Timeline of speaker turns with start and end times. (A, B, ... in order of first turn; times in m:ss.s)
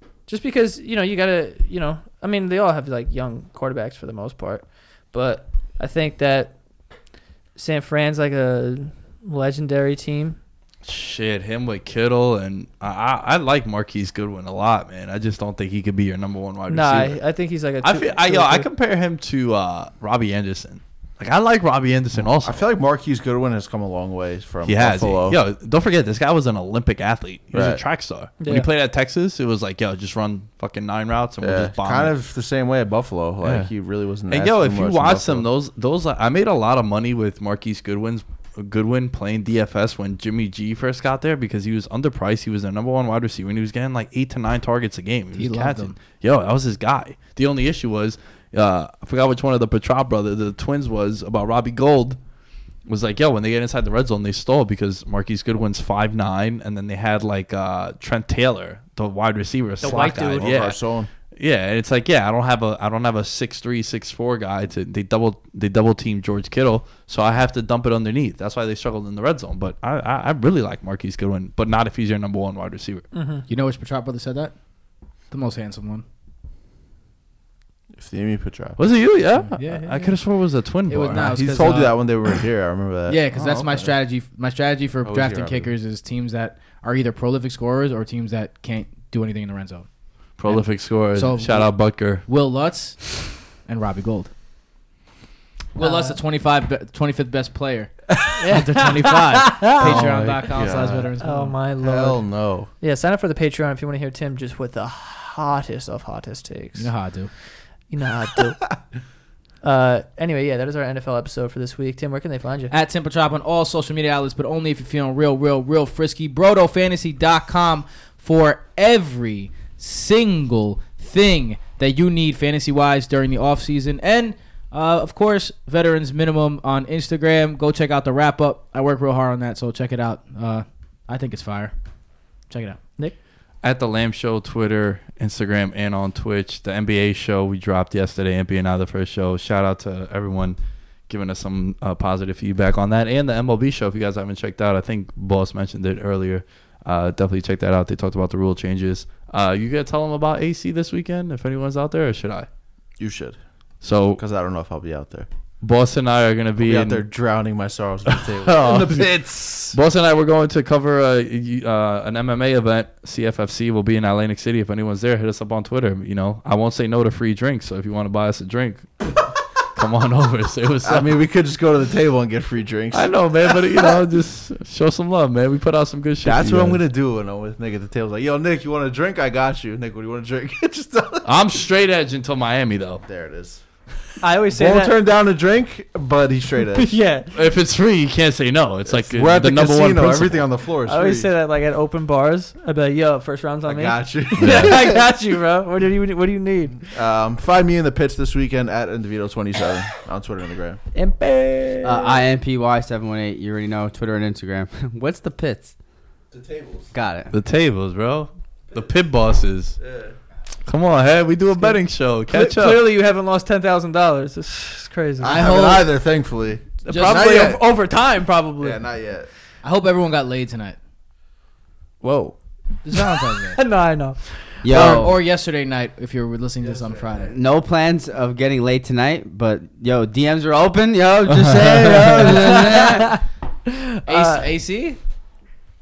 0:00.3-0:06.6 A
0:07.6-0:10.4 A
0:10.8-0:17.2 B
0:16.7-0:18.7 A
0:17.8-0:22.6 B
0:22.4-0:25.4 C
0:24.6-0:32.1 B
0:27.5-0:27.8 C
0:28.4-0:28.7 A
0:31.4-0:35.5 C
0:33.4-0:33.7 B
0:34.3-0:52.2 B
0:45.3-0:46.0 D
0:52.9-1:00.8 B
0:59.8-1:00.5 A
0:59.8-1:01.1 C
1:01.4-1:13.1 B
1:13.1-1:13.4 A
1:13.5-1:14.6 D
1:15.3-1:16.0 D
1:18.0-1:18.8 C
1:18.8-1:21.4 B
1:19.4-1:20.2 D
1:20.9-1:22.0 D
1:21.1-1:23.9 C
1:23.1-1:29.9 D
1:25.0-1:25.7 C
1:30.4-1:32.2 B
1:30.4-1:34.3 D
1:35.8-1:41.6 D
1:35.8-1:36.2 A
1:38.4-1:40.1 A
1:39.8-1:41.1 C
1:41.2-1:42.3 A
1:41.8-1:42.7 C
1:42.8-1:46.9 A
1:46.8-1:47.3 D
1:47.9-1:48.6 A
1:49.6-1:52.7 A
1:52.7-2:11.7 D
2:12.5-2:12.8 D
2:13.6-2:20.6 B
2:21.1-2:32.5 B
2:33.0-2:33.4 C
2:33.8-2:34.2 B
2:34.2-2:35.3 C
2:35.6-2:37.0 B
2:36.6-2:39.8 C
2:38.1-2:39.1 B
2:39.7-2:48.9 B
2:49.8-2:51.2 B
2:50.8-2:54.0 C
2:52.9-2:56.8 B
2:56.2-3:01.3 C
3:01.2-3:03.0 B
3:03.0-3:03.6 C
3:04.2-3:05.0 A
3:04.4-3:07.0 C
3:06.8-3:07.3 A
3:07.3-3:10.5 B
3:08.9-3:11.3 C
3:10.8-3:16.9 A
3:13.6-3:15.1 C
3:14.4-3:14.8 B
3:16.9-3:20.8 C
3:21.0-3:22.2 A
3:21.8-3:25.7 E
3:26.3-3:26.9 C
3:26.9-3:27.3 E
3:27.3-3:29.8 B
3:29.8-3:30.2 C
3:30.7-3:32.8 B
3:31.6-3:35.6 A
3:35.2-3:37.7 C
3:35.2-3:35.9 D
3:36.8-3:38.8 A
3:36.9-3:37.4 D
3:38.6-3:39.3 C
3:39.6-3:40.8 D
3:42.0-3:42.4 A
3:42.8-3:43.6 D
3:42.9-3:45.0 A
3:44.6-3:45.2 E
3:44.7-3:47.3 D
3:46.6-3:47.2 C
3:47.3-3:53.1 E
3:51.3-3:52.2 B
3:52.2-3:54.5 A
3:54.1-3:55.0 D